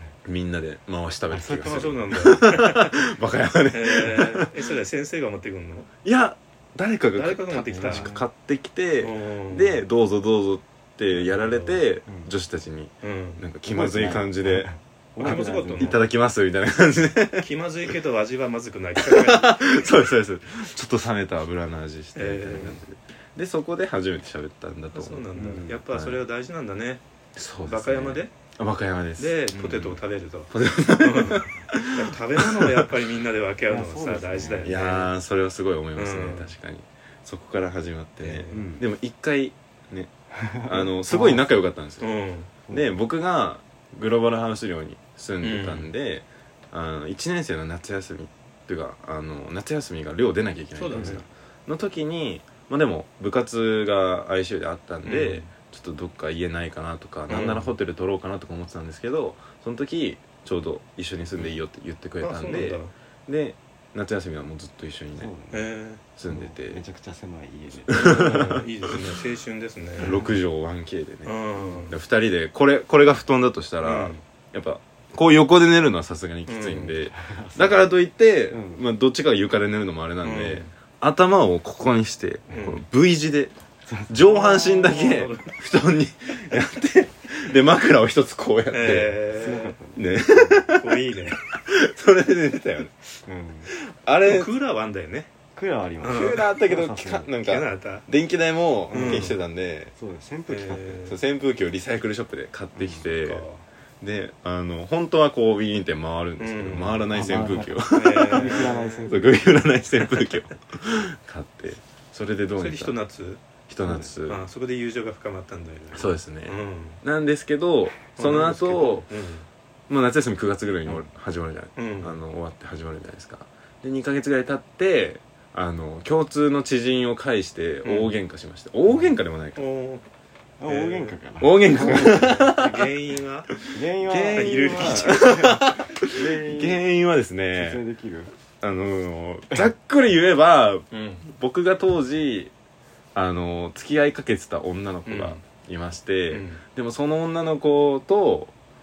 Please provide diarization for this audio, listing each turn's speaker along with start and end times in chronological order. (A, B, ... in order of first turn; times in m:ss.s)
0:00.2-0:04.5 A
0:01.3-0:02.1 B
0:01.6-0:03.0 C
0:03.7-0:05.9 C
0:06.0-0:17.5 A
0:07.2-0:08.1 C
0:07.7-0:08.3 B
0:09.0-0:09.8 C
0:11.2-0:11.8 C
0:13.0-0:13.4 C
0:13.7-0:16.1 B
0:15.2-0:16.0 C
0:17.4-0:19.8 C
0:19.0-0:25.3 A
0:22.2-0:22.8 C
0:24.9-0:27.0 C
0:25.3-0:25.8 B
0:25.9-0:26.2 A
0:27.4-0:32.9 A
0:27.6-0:28.3 C
0:29.2-0:35.1 C
0:33.7-0:34.7 B
0:34.6-0:42.1 A
0:36.0-0:36.5 C
0:38.2-0:38.7 C
0:38.5-0:38.8 B
0:40.3-0:41.5 B
0:42.0-0:42.5 C
0:42.7-0:43.0 B
0:42.7-1:05.3 A
0:45.4-0:45.9 C
0:50.7-0:51.2 C
0:50.9-0:51.2 B
0:55.0-0:55.5 C
0:57.3-0:57.7 C
0:57.3-0:57.6 B
1:02.2-1:02.9 C
1:05.2-1:05.7 B
1:05.5-1:06.0 C
1:06.2-1:06.8 A
1:06.3-1:08.6 B
1:07.9-1:09.0 A
1:07.9-1:10.2 C
1:10.0-1:10.4 B
1:10.0-1:23.5 A
1:11.2-1:11.9 C
1:13.8-1:14.2 C
1:16.5-1:16.9 C
1:17.1-1:17.9 B
1:18.5-1:18.8 B
1:20.2-1:20.7 C
1:22.5-1:22.8 C
1:23.8-1:24.9 B
1:24.1-1:29.2 A
1:24.2-1:25.5 C
1:28.7-1:29.8 C
1:29.3-1:30.6 B
1:30.0-1:33.1 A
1:30.7-1:31.4 C
1:33.2-1:33.7 B
1:33.7-1:34.5 A
1:34.2-1:35.3 C
1:35.5-1:37.3 B
1:36.0-1:36.5 C
1:36.1-1:39.9 A
1:37.4-1:38.0 C
1:38.9-1:39.4 B
1:38.9-1:39.4 C
1:39.9-1:41.1 B
1:40.5-1:41.2 C
1:41.1-1:43.4 A
1:42.8-1:43.0 B
1:43.0-1:43.6 C
1:44.0-1:53.0 A
1:46.4-1:47.0 C
1:47.1-1:49.4 B
1:47.9-1:49.1 C
1:52.6-1:53.4 C
1:53.7-1:54.4 A
1:53.8-1:54.1 B
1:54.2-1:57.0 C
1:55.9-1:59.1 A
1:58.2-1:59.5 C
1:59.9-2:09.6 A
2:01.8-2:02.2 C
2:07.8-2:08.1 C
2:08.9-2:09.1 B
2:09.6-2:10.0 C
2:10.6-2:12.5 B
2:10.6-2:11.2 C
2:11.4-2:12.8 A
2:11.8-2:15.3 C
2:13.7-2:16.8 B
2:14.0-2:17.8 A
2:17.5-2:18.3 B
2:18.6-2:22.5 A
2:20.9-2:21.2 C
2:23.1-2:28.5 A
2:25.0-2:25.4 C
2:26.3-2:26.6 C